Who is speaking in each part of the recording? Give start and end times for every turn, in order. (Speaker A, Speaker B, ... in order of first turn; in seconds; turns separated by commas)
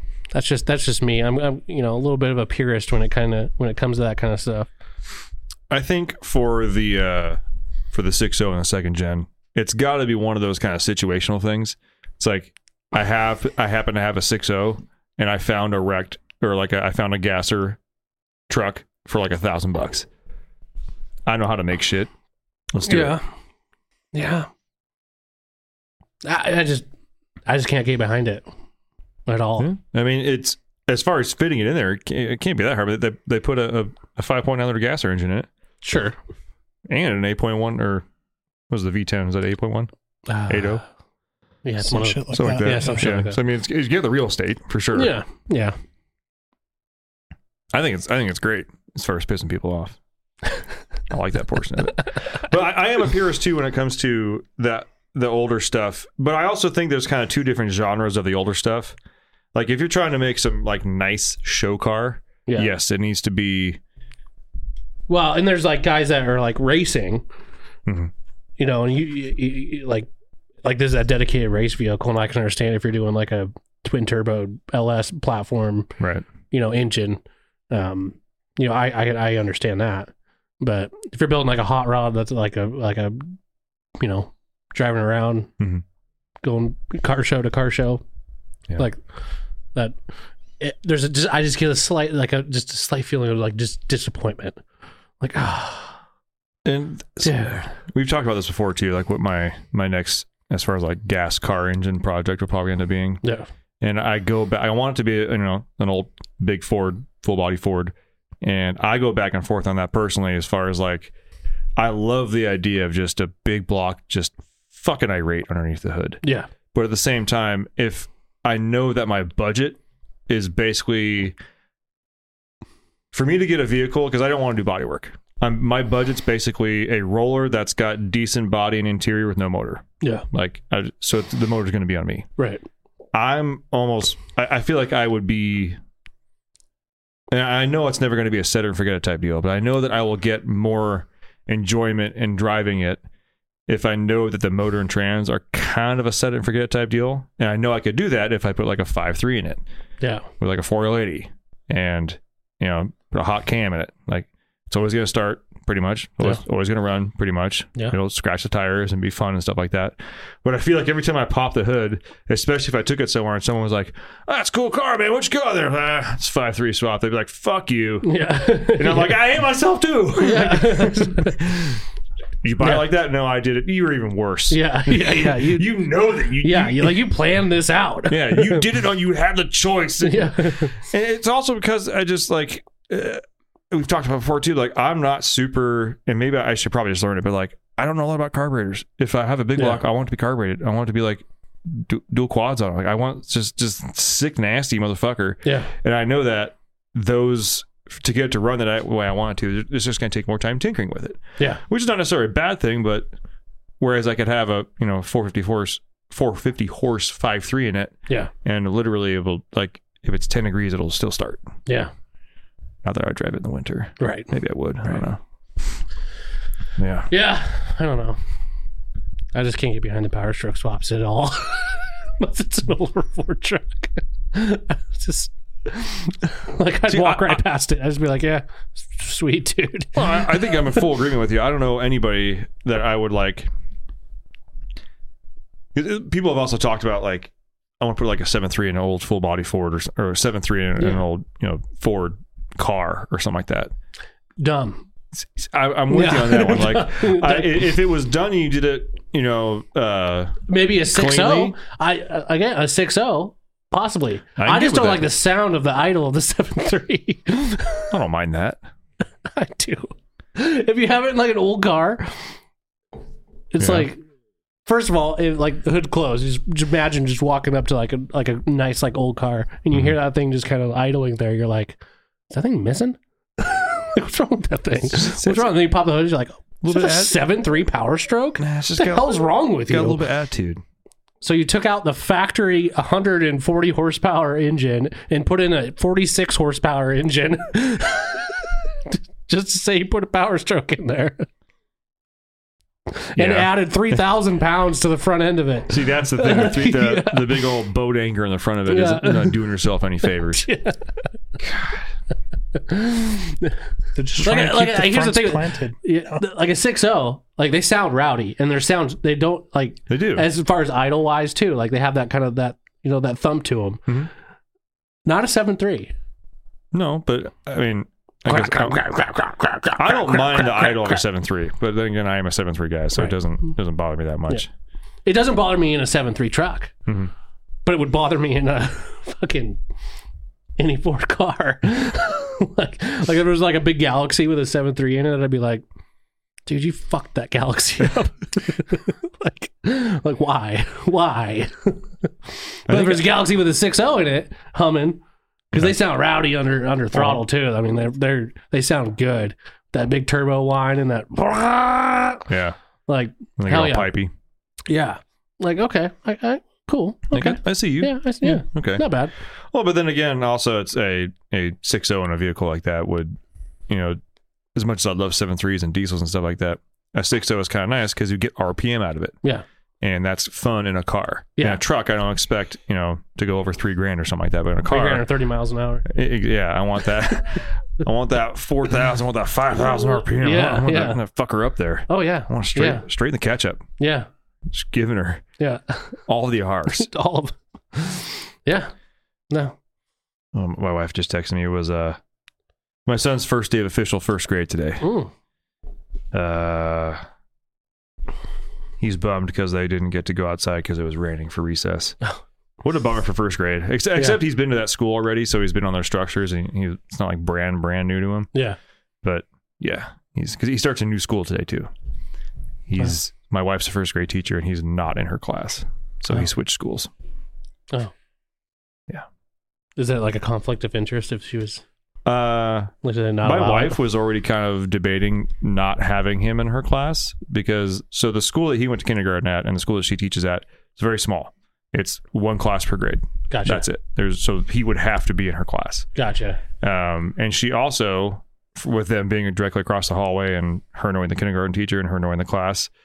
Speaker A: 0.3-4.7, Speaker B: 5.7-7.4, Speaker B: 7.9-17.8, Speaker B: 18.5-20.1, Speaker B: 21.2-22.1, Speaker B: 22.7-23.2, Speaker A: 22.9-23.2, Speaker A: 24.1-24.5, Speaker A: 26.2-26.9, Speaker A: 27.5-28.4, Speaker A: 29.3-29.7, Speaker B: 29.6-35.5, Speaker A: 35.8-36.1, Speaker B: 36.9-38.0, Speaker B: 38.7-39.9, Speaker A: 40.3-40.8, Speaker B: 40.5-40.8, Speaker A: 41.6-43.4, Speaker C: 41.8-43.0, Speaker B: 42.3-45.1, Speaker A: 44.9-45.8, Speaker B: 47.7-50.0, Speaker B: 51.1-58.9, Speaker B: 59.5-63.8, Speaker A: 65.1-67.2, Speaker B: 67.8-68.1, Speaker A: 68.6-70.1, Speaker A: 70.6-75.9, Speaker B: 76.0-76.2, Speaker A: 76.5-83.4, Speaker A: 84.0-85.5, Speaker A: 86.4-88.0, Speaker A: 90.6-94.6, Speaker A: 95.2-96.0, Speaker B: 96.6-103.2, Speaker A: 97.2-97.7, Speaker B: 103.8-111.1, Speaker B: 111.8-116.2, Speaker A: 116.2-116.5, Speaker B: 116.7-121.3, Speaker B: 123.1-132.3, Speaker A: 132.4-132.6, Speaker B: 133.1-135.8, Speaker B: 137.3-143.0, Speaker B: 143.7-149.6, Speaker A: 150.0-150.2, Speaker B: 150.4-171.8, Speaker A: 168.0-169.1, Speaker A: 170.2-171.4, Speaker B: 172.4-177.1, Speaker A: 172.6-172.8, Speaker A: 174.5-175.7, Speaker A: 176.4-178.6, Speaker B: 178.1-203.1, Speaker A: 180.0-180.8, Speaker A: 189.6-189.8, Speaker A: 195.4-195.7, Speaker B: 203.8-211.5, Speaker B: 212.8-215.2, Speaker A: 214.0-214.3, Speaker B: 216.8-217.1, Speaker A: 217.1-218.2, Speaker A: 219.3-230.5, Speaker B: 226.9-227.4, Speaker B: 229.9-233.5, Speaker B: 235.7-243.7, Speaker A: 244.4-244.8, Speaker B: 245.2-251.6, Speaker A: 245.9-247.7, Speaker A: 250.5-257.9, Speaker B: 254.4-255.1, Speaker B: 257.9-258.6, Speaker A: 259.3-262.3, Speaker A: 263.5-264.0, Speaker B: 263.6-263.9, Speaker A: 264.6-271.8, Speaker A: 272.3-280.0, Speaker B: 274.8-275.6, Speaker B: 276.6-277.2, Speaker B: 278.4-280.6, Speaker A: 281.2-291.3, Speaker A: 292.9-297.4, Speaker B: 293.2-294.0, Speaker B: 295.7-300.4, Speaker A: 298.7-299.4, Speaker A: 300.3-301.1, Speaker B: 301.4-301.8, Speaker A: 302.5-303.6, Speaker C: 303.9-306.2, Speaker A: 304.2-313.9, Speaker B: 309.9-310.2, Speaker A: 315.0-315.9, Speaker B: 316.7-318.9, Speaker A: 318.3-321.0, Speaker B: 319.8-324.5, Speaker A: 325.0-326.7, Speaker A: 327.6-329.6, Speaker A: 330.6-335.6, Speaker A: 336.4-352.2, Speaker B: 342.7-343.1, Speaker B: 346.9-347.2, Speaker B: 352.3-352.6, Speaker A: 352.9-353.9, Speaker B: 353.4-354.1, Speaker A: 354.7-359.1, Speaker B: 357.1-358.8, Speaker B: 359.5-363.2, Speaker B: 363.7-364.0, Speaker B: 364.5-369.1, Speaker B: 369.8-375.1, Speaker A: 374.7-375.9, Speaker B: 375.9-383.6, Speaker A: 380.2-381.0, Speaker A: 381.9-382.8, Speaker A: 383.8-384.1, Speaker B: 384.5-385.2, Speaker A: 385.4-386.0, Speaker B: 386.1-386.9, Speaker A: 386.7-388.7, Speaker A: 389.3-389.6, Speaker B: 390.3-392.0, Speaker B: 392.9-394.9, Speaker A: 394.8-395.1, Speaker B: 396.1-397.0, Speaker B: 398.8-402.0, Speaker B: 402.6-408.3, Speaker B: 409.0-411.7, Speaker B: 412.7-416.9, Speaker A: 419.8-421.6, Speaker B: 422.1-435.9, Speaker A: 422.8-423.8, Speaker A: 433.3-433.6, Speaker A: 436.0-436.4, Speaker B: 436.6-442.7